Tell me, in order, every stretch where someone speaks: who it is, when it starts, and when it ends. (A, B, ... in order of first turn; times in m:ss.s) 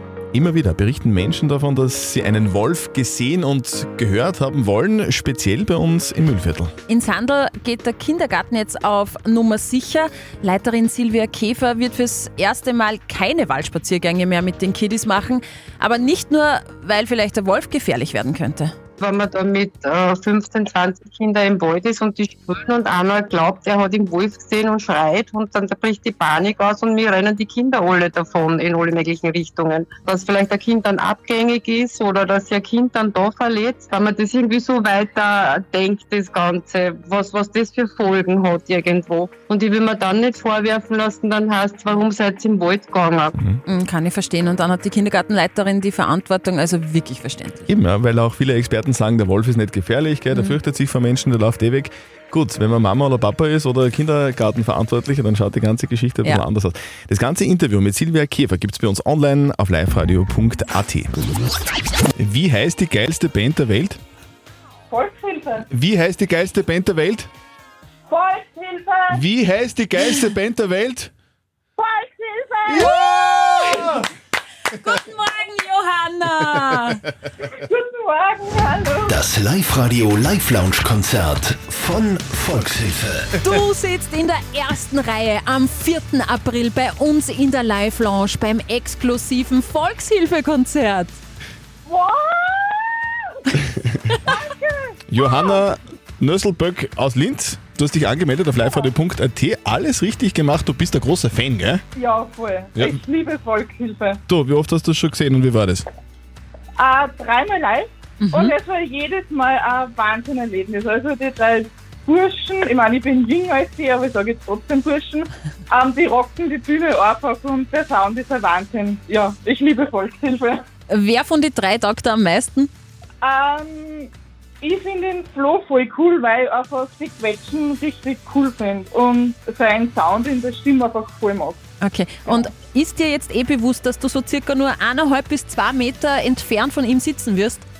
0:00.3-0:06.7 A
0:06.9-0:18.7 B
0:19.0-0:43.3 C
0:43.7-0:47.7 B
0:47.7-1:01.1 A
0:50.3-0:50.6 B
1:02.2-1:04.0 A
1:04.9-1:05.6 D
1:05.7-1:07.3 A
1:08.1-1:09.2 D
1:09.1-1:11.1 A
1:11.8-1:13.2 D
1:12.7-1:14.1 A
1:12.8-1:13.4 B
1:14.7-1:17.0 B
1:17.5-1:19.2 D
1:19.1-1:23.3 E
1:23.4-1:31.2 B
1:31.9-1:33.2 D
1:34.3-1:35.6 D
1:35.1-1:41.8 A
1:42.0-1:44.2 D
1:44.3-1:45.9 A
1:46.8-2:00.6 D
1:48.2-1:48.5 B
2:00.9-2:02.7 B
2:03.2-2:04.1 D
2:04.6-2:11.6 D
2:11.8-2:17.6 B